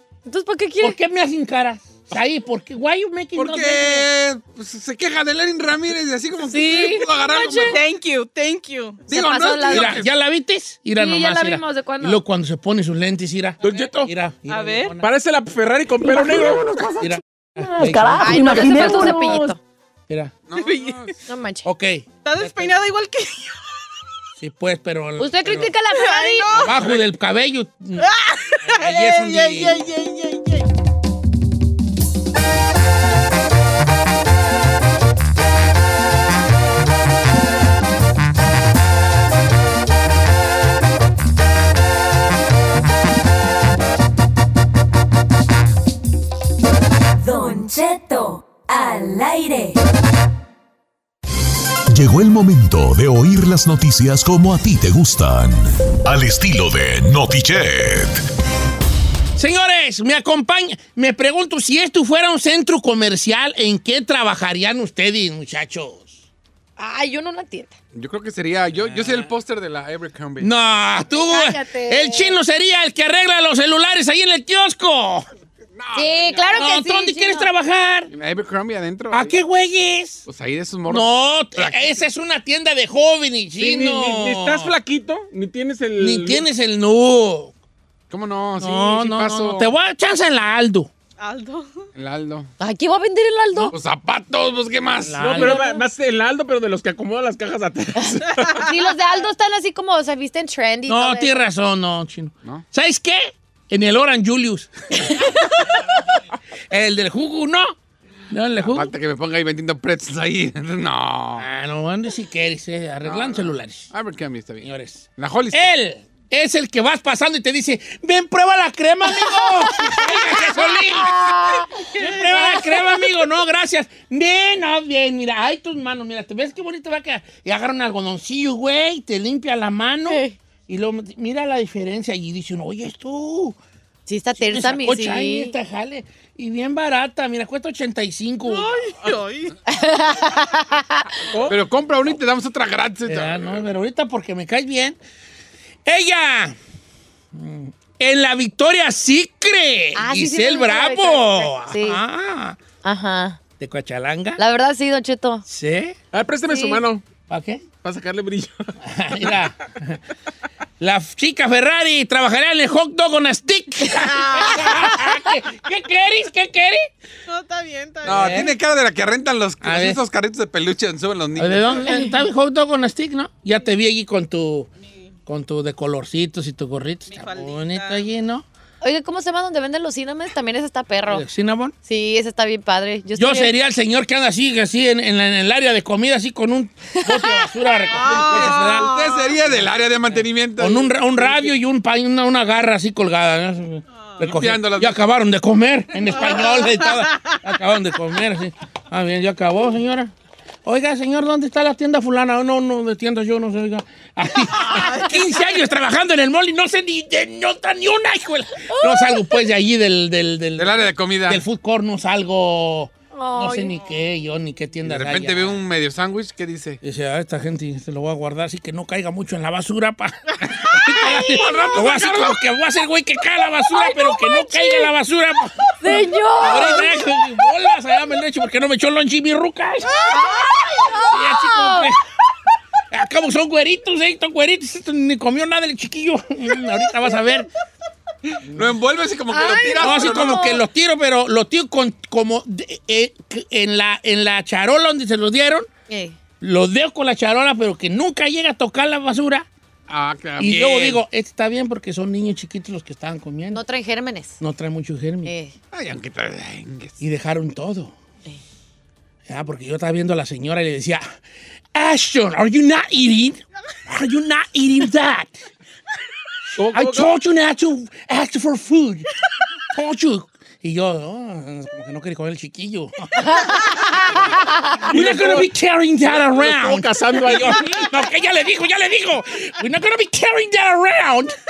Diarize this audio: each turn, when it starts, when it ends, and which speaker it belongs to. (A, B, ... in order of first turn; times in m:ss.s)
0:00.2-0:01.0 A
0:00.8-0:04.1 B
0:03.4-0:07.8 C
0:06.4-0:07.1 A
0:06.5-0:07.0 B
0:07.4-0:09.0 D
0:09.1-0:10.1 C
0:09.1-0:10.0 A
0:09.7-0:15.1 B
0:11.0-0:12.2 A
0:13.6-0:14.1 E
0:14.5-0:15.0 D
0:15.0-0:16.6 E
0:16.0-0:19.6 F
0:17.0-0:19.3 B
0:18.2-0:19.6 A
0:20.5-0:21.1 C
0:20.5-0:21.1 D
0:21.2-0:21.6 A
0:21.6-0:22.7 B
0:22.2-0:23.6 D
0:24.4-0:25.7 B
0:25.2-0:26.7 A
0:25.9-0:26.8 D
0:26.6-0:28.1 B
0:28.0-0:30.6 D
0:28.6-0:29.8 B
0:47.2-0:49.8 G
0:51.9-0:58.2 H
0:59.4-1:06.2 B
1:06.8-1:07.8 A
1:07.9-1:10.5 C
1:08.8-1:09.3 B
1:10.4-1:15.3 B
1:11.1-1:12.4 A
1:15.8-1:16.7 C
1:15.9-1:17.5 A
1:16.5-1:18.1 B
1:18.1-1:19.4 C
1:19.1-1:20.2 B
1:20.2-1:22.0 C
1:20.9-1:24.7 B
1:23.6-1:26.4 E
1:26.0-1:27.5 B
1:28.1-1:29.7 C
1:28.6-1:30.9 B
1:31.2-1:31.9 D
1:31.9-1:32.5 C
1:32.6-1:33.7 A
1:33.7-1:35.4 C
1:35.0-1:35.7 B
1:35.2-1:38.6 E
1:35.4-1:35.8 A
1:38.0-1:41.4 A
1:40.9-1:45.2 B
1:46.7-1:47.8 B
1:48.3-1:48.9 B
1:48.6-1:51.4 C
1:51.4-1:53.9 B
1:53.0-1:55.7 C
1:54.6-2:01.3 B
1:59.2-2:02.8 A
2:01.9-2:13.6 B
2:10.1-2:10.4 A
2:14.1-2:15.5 A
2:14.3-2:18.8 B
2:18.5-2:19.5 D
2:19.7-2:21.2 A
2:21.4-2:23.7 C
2:23.0-2:25.0 B
2:25.8-2:26.6 B
2:27.3-2:32.6 B
2:30.0-2:32.0 A
2:32.8-2:33.4 A
2:33.6-2:34.4 B
2:34.4-2:35.4 A
2:35.4-2:36.0 B
2:36.1-2:37.0 E
2:36.5-2:36.8 A
2:37.3-2:37.6 B
2:37.8-2:38.7 E
2:38.8-2:40.0 B
2:40.8-2:46.9 B
2:44.4-2:44.7 D
2:47.3-2:48.4 D
2:48.0-2:48.5 B
2:48.0-2:51.9 C
2:49.6-2:50.0 B
2:51.4-2:54.7 B
2:54.8-2:55.1 D
2:55.3-2:58.4 B
2:57.1-2:58.1 D
2:58.8-3:01.2 A
3:01.1-3:01.7 B
3:01.8-3:03.5 A
3:03.2-3:08.9 B
3:06.9-3:07.5 A
3:07.9-3:09.3 D
3:08.0-3:10.9 C
3:09.5-3:20.1 B
3:14.2-3:15.0 C
3:16.1-3:17.3 D
3:20.6-3:35.6 B
3:24.6-3:25.4 D
3:28.7-3:29.4 A
3:30.6-3:31.4 C
3:33.1-3:33.8 A
3:34.8-3:36.8 C
3:36.8-3:50.1 B
3:40.7-3:42.4 C
3:41.1-3:41.7 A
3:43.7-3:44.9 A
3:45.8-3:47.0 A
3:50.0-3:51.9 A
3:51.0-3:52.0 B
3:52.9-3:57.5 B
3:58.4-3:58.7 B
3:58.5-4:00.6 C
3:59.3-4:00.6 A
3:59.8-4:05.7 B
4:05.9-4:06.2 A
4:06.4-4:09.5 B
4:09.9-4:11.0 C
4:10.4-4:13.6 B
4:13.5-4:14.4 A
4:14.4-4:15.3 B
4:15.2-4:15.5 A
4:15.7-4:17.0 C
4:17.0-4:17.9 B
4:19.3-4:21.0 B
4:21.7-4:25.4 B
4:26.6-4:27.1 E
4:26.7-4:29.1 B
4:29.7-4:41.3 B
4:33.2-4:34.8 A
4:34.9-4:35.5 E
4:36.0-4:37.7 E